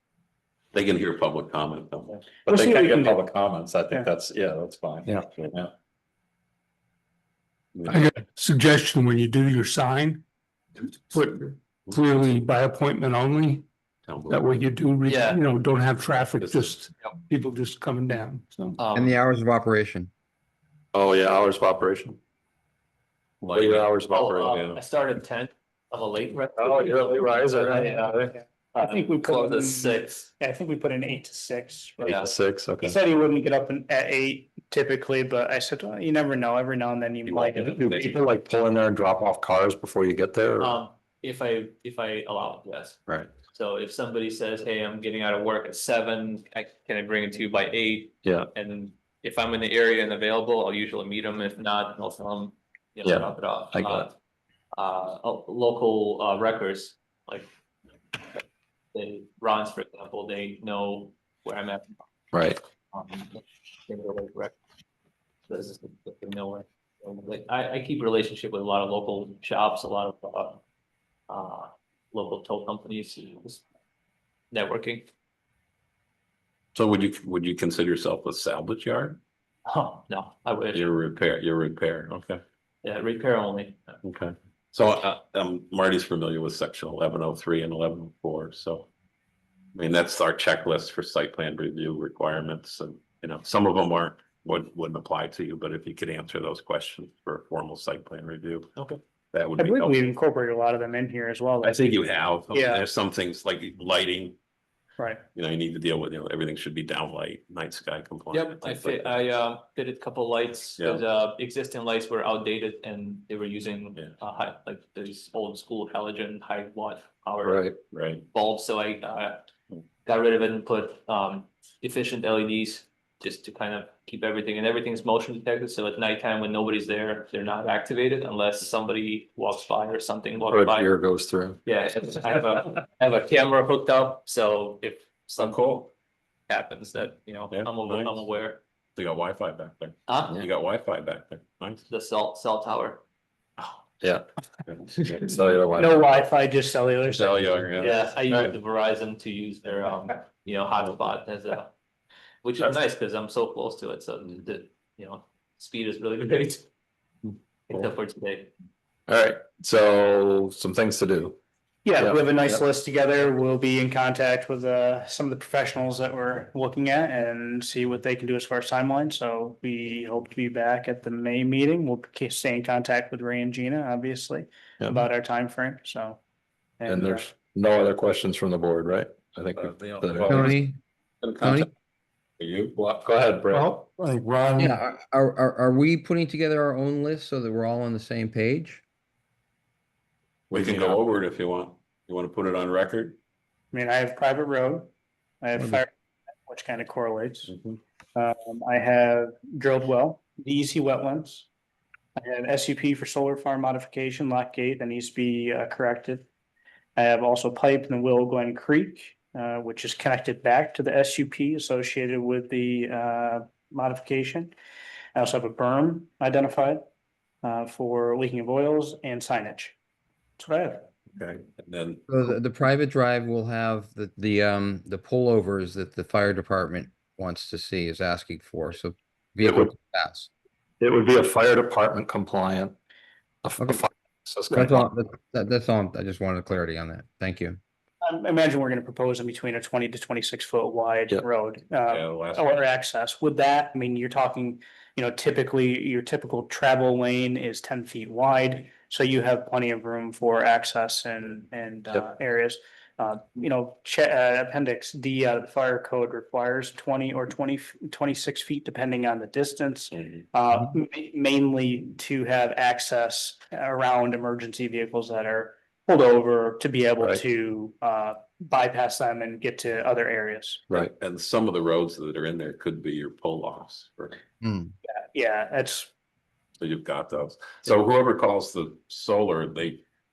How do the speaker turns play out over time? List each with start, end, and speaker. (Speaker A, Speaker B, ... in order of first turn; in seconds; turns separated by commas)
Speaker A: 0.7-2.2, Speaker B: 2.4-5.7, Speaker C: 2.5-3.2, Speaker A: 5.2-5.5, Speaker A: 7.7-8.1, Speaker D: 7.9-10.2, Speaker D: 11.1-13.7, Speaker A: 14.0-14.7, Speaker D: 14.3-18.8, Speaker E: 15.0-15.4, Speaker A: 16.4-16.8, Speaker E: 18.8-19.2, Speaker F: 18.9-20.1, Speaker B: 20.9-22.2, Speaker A: 23.4-24.8, Speaker B: 23.5-24.3, Speaker E: 24.1-30.3, Speaker B: 26.6-28.3, Speaker C: 27.8-32.2, Speaker B: 32.0-33.0, Speaker E: 32.0-32.3, Speaker C: 32.8-38.2, Speaker A: 37.3-38.1, Speaker B: 37.6-40.8, Speaker E: 40.6-43.0, Speaker E: 43.5-54.1, Speaker B: 53.0-54.1, Speaker E: 54.7-57.5, Speaker E: 58.9-62.0, Speaker B: 62.3-62.6, Speaker E: 62.9-64.5, Speaker E: 65.5-70.6, Speaker E: 71.3-73.6, Speaker E: 74.5-75.1, Speaker A: 76.7-79.2, Speaker E: 79.7-80.8, Speaker A: 80.7-82.4, Speaker E: 82.8-83.9, Speaker A: 84.0-88.9, Speaker A: 89.7-98.7, Speaker A: 99.3-99.9, Speaker C: 99.6-101.9, Speaker A: 101.6-104.4, Speaker C: 102.5-102.8, Speaker C: 105.0-105.2, Speaker A: 105.3-109.3, Speaker E: 108.3-117.6, Speaker A: 110.8-111.0, Speaker B: 117.4-117.8, Speaker A: 117.9-118.2, Speaker E: 118.3-119.5, Speaker E: 120.0-130.9, Speaker B: 130.5-131.6, Speaker E: 131.7-135.6, Speaker A: 135.4-135.9, Speaker E: 136.5-138.6, Speaker A: 137.5-138.2, Speaker A: 139.0-141.8, Speaker E: 140.1-140.4, Speaker E: 141.9-143.0, Speaker A: 144.7-145.2, Speaker B: 145.1-146.0, Speaker C: 145.8-147.8, Speaker A: 147.1-148.0, Speaker E: 147.8-151.7, Speaker B: 148.3-148.6, Speaker E: 152.4-156.7, Speaker E: 157.7-158.5, Speaker B: 159.1-161.4, Speaker C: 161.8-176.2, Speaker B: 162.0-162.6, Speaker C: 176.8-177.3, Speaker B: 176.9-180.5, Speaker A: 179.6-180.6, Speaker F: 180.3-180.8, Speaker A: 181.2-181.7, Speaker F: 181.4-181.7, Speaker A: 182.4-182.7, Speaker B: 182.8-184.7, Speaker F: 184.6-188.8, Speaker A: 190.5-193.2, Speaker C: 193.7-194.9, Speaker C: 195.4-195.9, Speaker C: 196.5-197.5, Speaker A: 197.5-197.8, Speaker C: 198.2-201.5, Speaker C: 202.2-206.3, Speaker C: 207.0-214.5, Speaker C: 215.2-216.8, Speaker C: 217.4-219.8, Speaker C: 220.4-220.9, Speaker A: 221.1-222.3, Speaker F: 222.1-230.3, Speaker B: 229.4-229.7, Speaker B: 230.8-232.8, Speaker B: 233.4-234.9, Speaker F: 234.5-237.6, Speaker C: 238.0-270.6, Speaker A: 241.8-242.6, Speaker A: 270.8-274.2, Speaker F: 274.4-274.7, Speaker C: 274.9-275.9, Speaker A: 276.6-279.8